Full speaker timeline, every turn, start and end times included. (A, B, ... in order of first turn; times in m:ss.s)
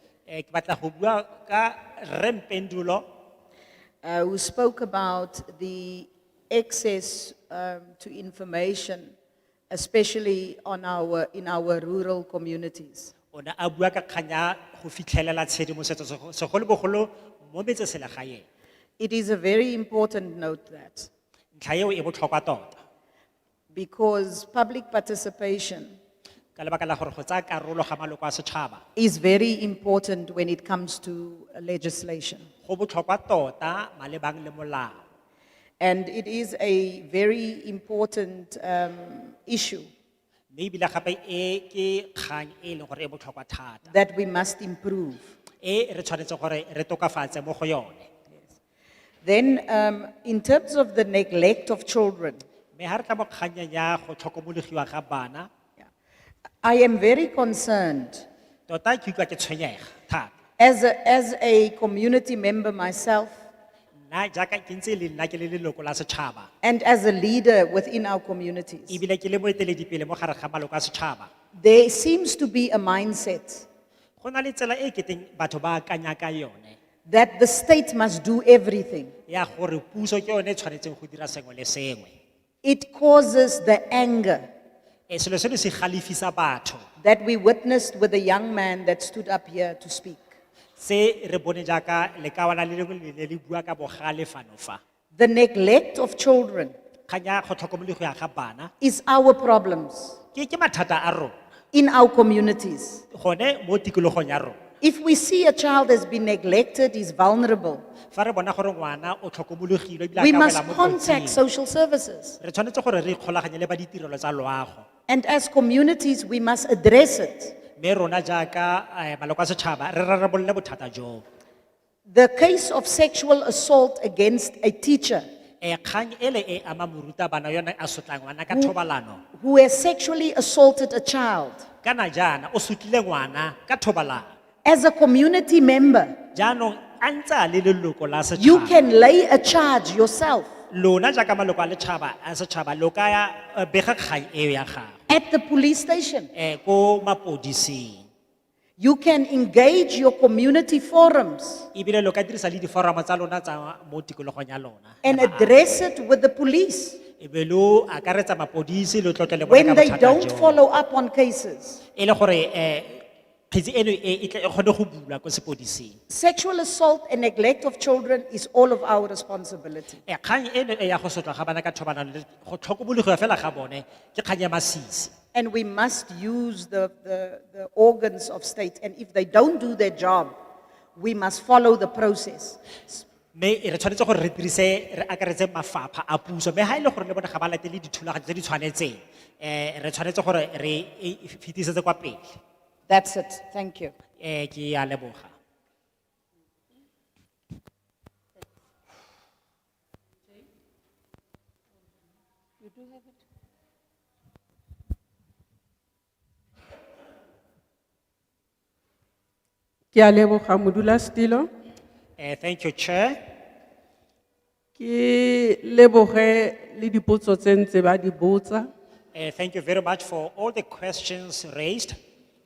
0:00.3-0:03.0 A
0:04.0-0:09.1 B
0:09.7-0:13.1 B
0:13.3-0:18.4 A
0:19.0-0:21.1 B
0:21.6-0:22.8 A
0:23.7-0:25.9 B
0:26.6-0:28.8 A
0:29.0-0:32.4 B
0:32.6-0:35.0 A
0:35.8-0:39.9 B
0:40.5-0:43.9 A
0:43.9-0:45.2 B
0:45.6-0:48.1 A
0:49.2-0:52.4 B
0:52.7-0:55.5 A
0:56.6-0:58.2 B
0:58.7-1:00.3 A
1:00.6-1:03.4 B
1:04.1-1:06.5 A
1:06.6-1:09.0 B
1:08.9-1:11.3 A
1:11.6-1:13.6 B
1:14.2-1:16.8 A
1:17.0-1:19.1 B
1:19.3-1:22.1 A
1:22.6-1:24.4 B
1:25.1-1:26.8 A
1:27.0-1:30.2 B
1:30.8-1:34.8 A
1:35.1-1:36.7 B
1:37.1-1:38.7 A
1:38.8-1:40.2 B
1:40.3-1:41.3 A
1:41.7-1:43.0 B
1:43.1-1:44.6 A
1:44.8-1:47.8 B
1:48.1-1:51.4 A
1:50.2-1:52.4 B
1:52.4-1:54.8 A
1:55.1-1:57.6 B
1:57.8-2:01.2 A
2:02.1-2:05.2 B
2:05.6-2:09.2 A
2:09.3-2:11.6 B
2:11.8-2:14.2 A
2:14.6-2:16.2 B
2:16.3-2:18.8 A
2:18.4-2:20.5 B
2:20.7-2:24.9 A
2:25.1-2:26.3 B
2:26.3-2:28.0 A
2:28.8-2:31.7 B
2:31.7-2:35.6 A
2:35.0-2:37.0 B
2:37.2-2:40.6 A
2:39.5-2:41.8 B
2:42.0-2:46.0 A
2:46.1-2:50.0 B
2:50.1-2:55.1 A
2:55.3-3:00.3 B
3:01.0-3:03.0 B
3:03.3-3:12.3 A
3:12.9-3:13.9 B
3:14.2-3:15.3 A
3:29.9-3:31.5 C
3:32.2-3:33.2 A
3:34.8-3:38.7 C
3:39.1-3:41.9 A